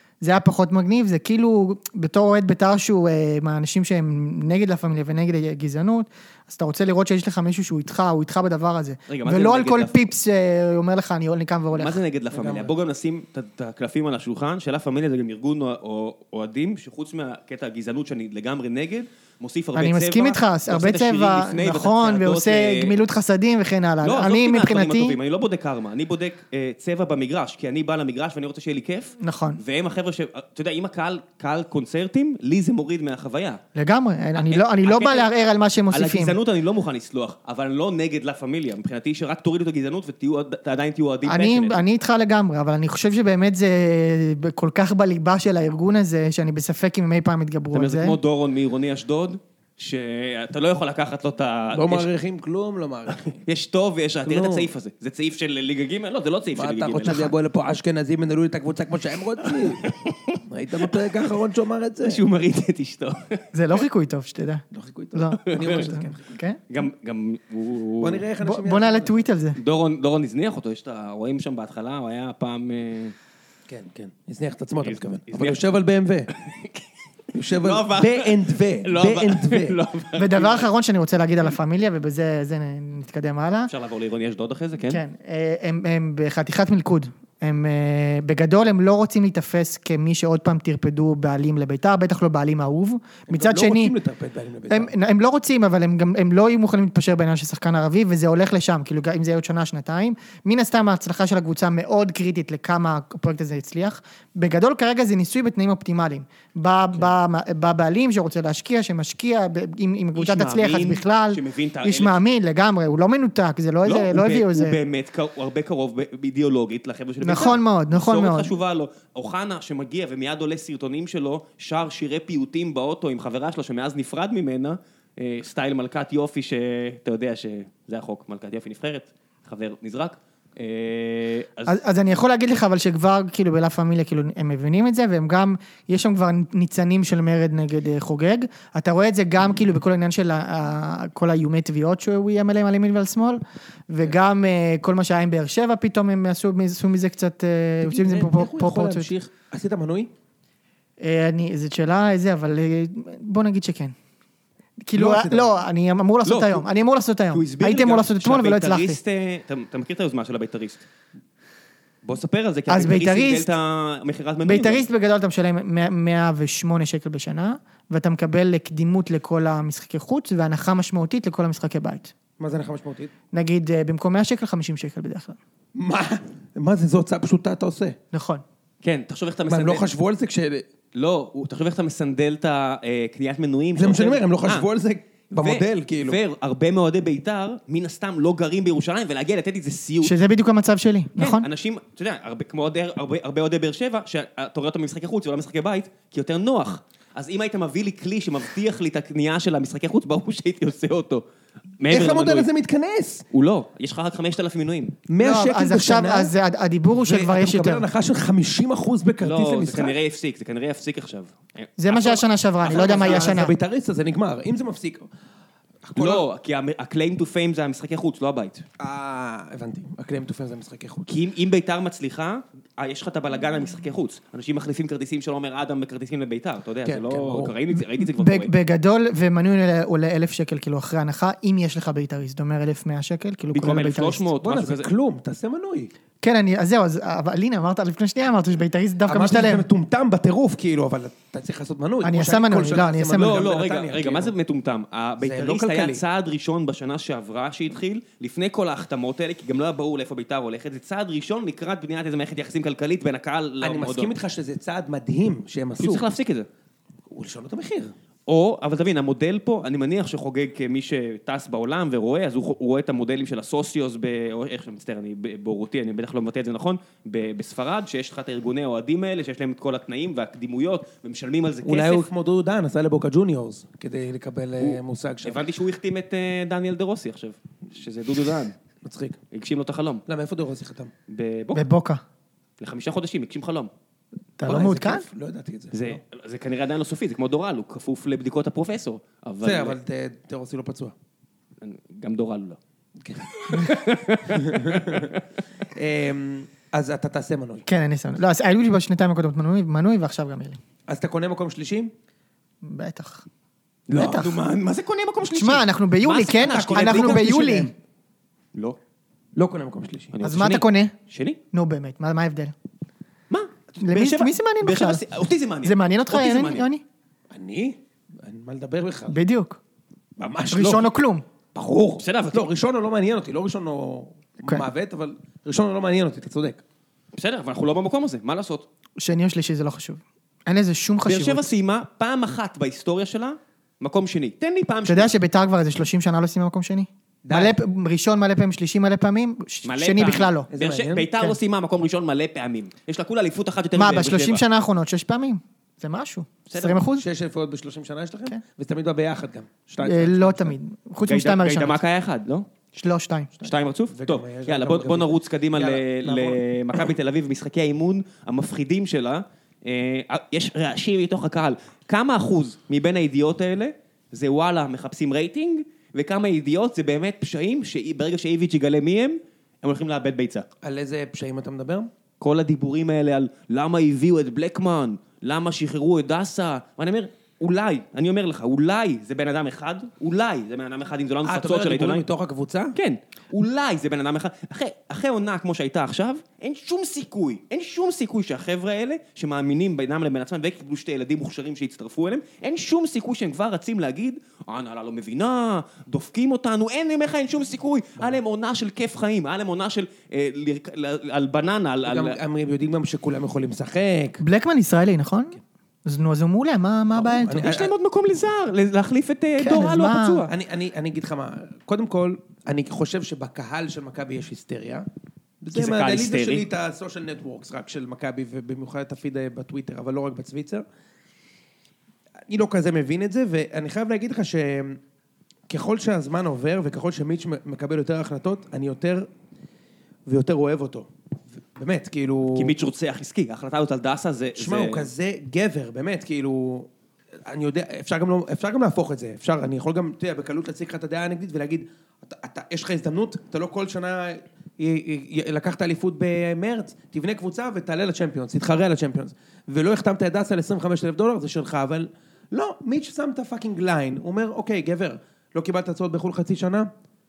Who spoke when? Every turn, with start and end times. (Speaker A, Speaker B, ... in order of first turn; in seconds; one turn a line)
Speaker A: 0.2-12.0
Speaker B: 9.1-10.0
Speaker B: 11.7-23.0
Speaker C: 12.3-12.7
Speaker A: 19.8-25.2
Speaker B: 24.0-33.6
Speaker A: 29.2-29.6
Speaker A: 33.8-36.4
Speaker B: 34.4-35.3
Speaker B: 35.9-41.8
Speaker A: 41.2-48.2
Speaker B: 47.7-52.1
Speaker C: 51.7-53.4
Speaker B: 53.2-57.3
Speaker C: 54.2-54.7
Speaker C: 56.5-59.9
Speaker B: 59.4-61.0
Speaker C: 60.5-62.2
Speaker B: 62.0-63.5
Speaker A: 63.5-66.6
Speaker C: 64.7-66.3
Speaker B: 65.4-65.8
Speaker B: 66.7-68.2
Speaker C: 68.0-69.2
Speaker A: 68.4-69.6
Speaker B: 69.6-73.2
Speaker C: 73.7-76.3
Speaker B: 74.8-75.7
Speaker B: 76.3-80.7
Speaker C: 77.3-79.8
Speaker A: 80.2-83.7
Speaker B: 83.7-85.0
Speaker A: 84.9-94.0
Speaker C: 93.3-94.9
Speaker A: 94.7-114.8
Speaker B: 110.2-112.2
Speaker B: 113.8-131.8
Speaker A: 117.2-118.5
Speaker A: 131.7-149.1
Speaker C: 147.8-150.1
Speaker A: 151.0-153.9
Speaker A: 154.8-159.0
Speaker C: 154.9-155.6
Speaker B: 156.2-156.6
Speaker B: 157.3-160.8
Speaker B: 162.0-164.8
Speaker A: 162.7-163.5
Speaker A: 164.4-172.1
Speaker C: 172.4-173.1
Speaker A: 173.3-175.4
Speaker C: 175.8-178.0
Speaker A: 178.1-178.4
Speaker B: 178.8-179.9
Speaker C: 179.5-180.7
Speaker B: 180.9-184.7
Speaker C: 183.8-186.2
Speaker B: 185.4-190.2
Speaker A: 190.0-191.5
Speaker B: 191.2-201.2
Speaker B: 201.8-202.5
Speaker C: 201.9-203.2
Speaker B: 203.3-205.0
Speaker C: 205.1-206.3
Speaker A: 205.2-207.9
Speaker C: 207.0-210.0
Speaker B: 209.2-213.4
Speaker A: 211.8-213.6
Speaker C: 212.7-215.1
Speaker C: 215.8-216.2
Speaker B: 216.0-218.6
Speaker C: 218.8-221.1
Speaker B: 221.1-228.5
Speaker C: 226.8-227.5
Speaker A: 228.0-234.3
Speaker B: 233.5-234.9
Speaker C: 234.4-235.9
Speaker A: 236.2-239.7
Speaker C: 239.1-244.3
Speaker A: 242.0-243.4
Speaker B: 243.1-254.2
Speaker C: 245.2-246.0
Speaker C: 253.6-256.1
Speaker B: 255.8-256.5
Speaker C: 257.1-257.9
Speaker B: 258.3-272.1
Speaker C: 271.6-275.4
Speaker B: 274.6-278.6
Speaker C: 278.8-279.2
Speaker B: 279.3-280.0
Speaker C: 280.1-280.9
Speaker B: 281.1-281.6
Speaker A: 281.5-282.0
Speaker B: 282.6-283.7
Speaker A: 284.4-285.1
Speaker C: 284.5-286.0
Speaker B: 285.7-289.8
Speaker C: 289.4-290.9
Speaker B: 291.6-292.6
Speaker C: 293.0-295.1
Speaker B: 293.3-295.2
Speaker C: 295.7-297.7
Speaker A: 297.7-300.6
Speaker C: 300.9-301.9
Speaker A: 302.6-303.3
Speaker B: 303.9-307.4
Speaker C: 303.9-304.2
Speaker A: 303.9-304.4
Speaker A: 305.4-307.7
Speaker C: 306.3-307.7
Speaker C: 309.4-310.1
Speaker B: 310.1-311.4
Speaker A: 310.2-310.9
Speaker A: 311.5-312.5
Speaker B: 313.3-316.7
Speaker A: 313.8-315.0
Speaker A: 315.6-316.8
Speaker C: 317.3-319.2
Speaker A: 319.1-319.6
Speaker C: 320.2-320.9
Speaker A: 320.5-321.2
Speaker C: 321.5-326.6
Speaker B: 322.0-322.5
Speaker B: 327.1-328.7
Speaker A: 329.0-331.5
Speaker B: 331.1-335.1
Speaker A: 334.9-340.5
Speaker C: 337.2-337.6
Speaker B: 339.6-344.4
Speaker C: 340.5-341.1
Speaker A: 343.8-347.1
Speaker B: 346.5-346.8
Speaker C: 346.9-350.6
Speaker A: 349.8-351.8
Speaker B: 351.1-352.5
Speaker A: 352.7-353.3
Speaker C: 353.4-356.9
Speaker B: 353.4-370.5
Speaker C: 370.6-371.9
Speaker B: 372.2-382.1
Speaker C: 381.2-382.8
Speaker B: 382.8-402.2
Speaker C: 401.9-404.2
Speaker A: 404.2-407.5
Speaker C: 407.0-407.7
Speaker B: 407.4-410.3
Speaker A: 409.4-410.3
Speaker C: 410.3-414.9
Speaker C: 415.4-420.6
Speaker B: 415.5-416.4
Speaker C: 422.3-424.8
Speaker C: 425.5-429.1
Speaker C: 430.1-430.9
Speaker C: 431.6-432.5
Speaker B: 432.3-434.9
Speaker C: 434.4-436.7
Speaker C: 437.3-456.7